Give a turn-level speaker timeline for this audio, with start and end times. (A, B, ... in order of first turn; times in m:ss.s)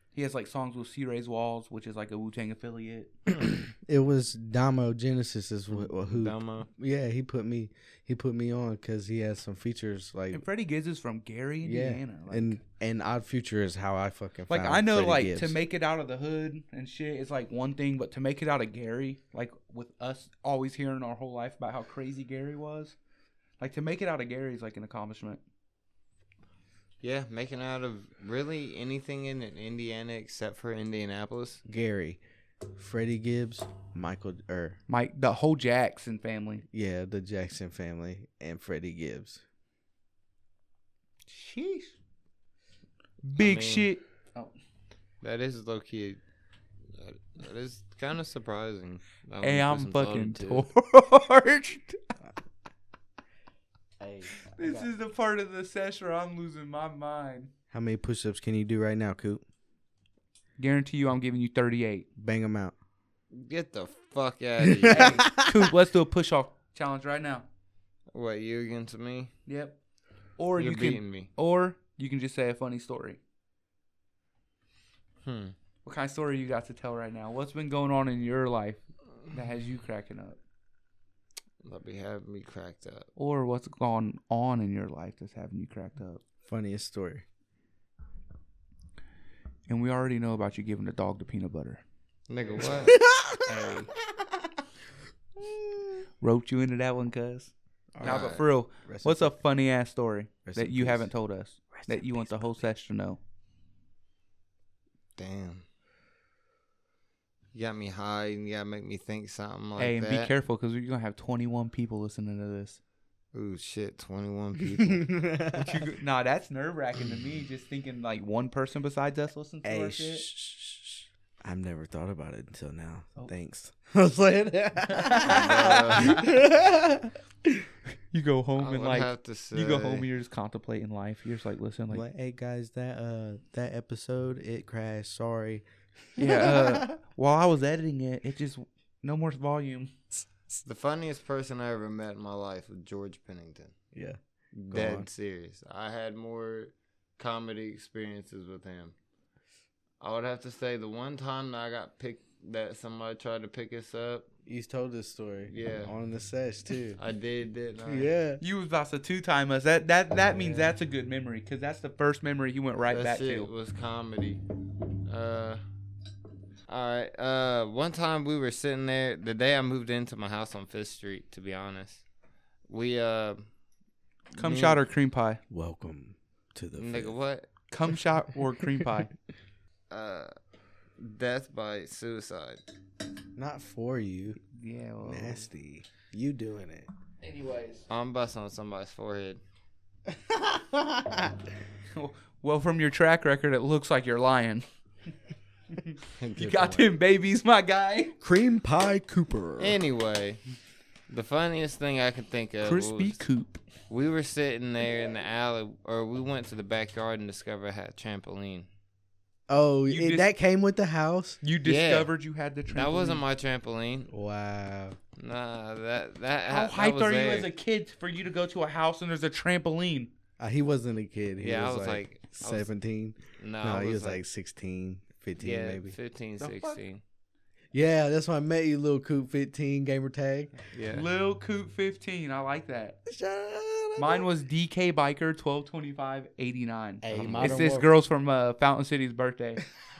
0:00.1-0:03.1 A
0:03.3-0:10.4 B
0:05.9-0:06.7 C
0:10.3-0:12.6 A
0:11.6-0:15.6 B
0:14.5-0:23.0 A
0:23.6-0:25.4 A
0:27.0-0:31.6 C
0:31.6-0:32.2 B
0:32.7-0:34.8 B
0:34.9-0:36.6 A
0:36.7-0:39.4 B
0:41.3-0:41.9 A
0:43.2-0:44.5 A
0:43.4-0:43.9 C
0:45.2-0:46.2 C
0:46.9-0:50.6 C
0:49.4-0:52.0 A
0:54.0-0:54.9 B
0:54.5-0:57.5 A
0:57.7-0:59.4 B
1:00.6-1:02.1 A
1:02.2-1:02.7 B
1:03.3-1:05.2 C
1:04.6-1:05.7 B
1:04.9-1:07.4 A
1:08.1-1:09.3 C
1:09.5-1:09.8 A
1:10.4-1:13.2 A
1:10.6-1:11.3 C
1:15.2-1:15.5 C
1:15.8-1:20.4 A
1:21.6-1:23.1 C
1:23.2-1:26.2 A
1:26.5-1:27.2 B
1:29.7-1:31.8 A
1:32.3-1:33.0 C
1:32.9-1:34.5 B
1:33.4-1:33.9 A
1:36.2-1:43.2 A
1:37.9-1:39.4 B
1:38.0-1:38.4 C
1:40.4-1:41.1 B
1:45.2-1:45.6 C
1:47.5-1:50.3 C
1:49.8-1:52.8 A
1:53.3-1:55.0 C
1:54.6-1:55.9 B
1:55.5-2:00.2 A
1:59.6-2:07.7 B
2:04.9-2:06.3 A
2:05.2-2:06.2 C
2:08.1-2:12.0 A
2:08.6-2:10.1 C
2:11.9-2:17.0 B
2:16.2-2:19.9 A
2:20.5-2:23.7 C
2:23.9-2:24.2 B
2:24.5-2:28.9 C
2:24.7-2:25.1 B
2:30.0-2:34.3 C
2:34.4-2:37.0 B
2:35.5-2:35.9 C
2:37.0-2:38.1 C
2:37.8-2:38.4 B
2:38.4-2:43.5 A
2:40.3-2:40.8 B
2:42.9-2:44.4 C
2:45.0-2:45.6 C
2:46.7-2:52.0 C
2:52.7-2:53.5 C
2:54.3-2:54.8 C
2:54.4-2:55.4 A
2:55.5-2:57.1 B
2:56.8-2:57.5 C
2:57.7-2:59.1 A
2:59.9-3:00.3 C
3:01.0-3:02.6 C
3:03.4-3:04.4 B
3:04.5-3:05.4 A
3:05.0-3:06.9 B
3:07.2-3:07.8 A
3:07.9-3:09.4 C
3:10.1-3:11.3 B
3:11.9-3:14.6 A
3:15.8-3:18.2 A
3:16.2-3:16.9 C
3:18.2-3:19.8 B
3:19.6-3:20.4 C
3:21.1-3:23.2 C
3:22.6-3:23.6 A
3:23.9-3:28.7 C
3:29.5-3:31.4 B
3:29.9-3:30.3 A
3:31.4-3:33.2 A
3:31.6-3:32.1 C
3:32.7-3:34.1 C
3:34.1-3:35.0 B
3:35.2-3:37.5 C
3:36.5-3:40.1 A
3:40.4-3:45.9 B
3:41.4-3:42.7 C
3:43.4-3:44.2 C
3:45.4-3:47.0 C
3:46.4-3:46.8 A
3:47.7-3:50.5 B
3:50.7-3:51.0 C
3:50.9-3:53.0 A
3:53.0-3:54.3 B
3:54.0-3:59.7 A
3:57.0-3:57.9 B
3:57.1-3:57.6 C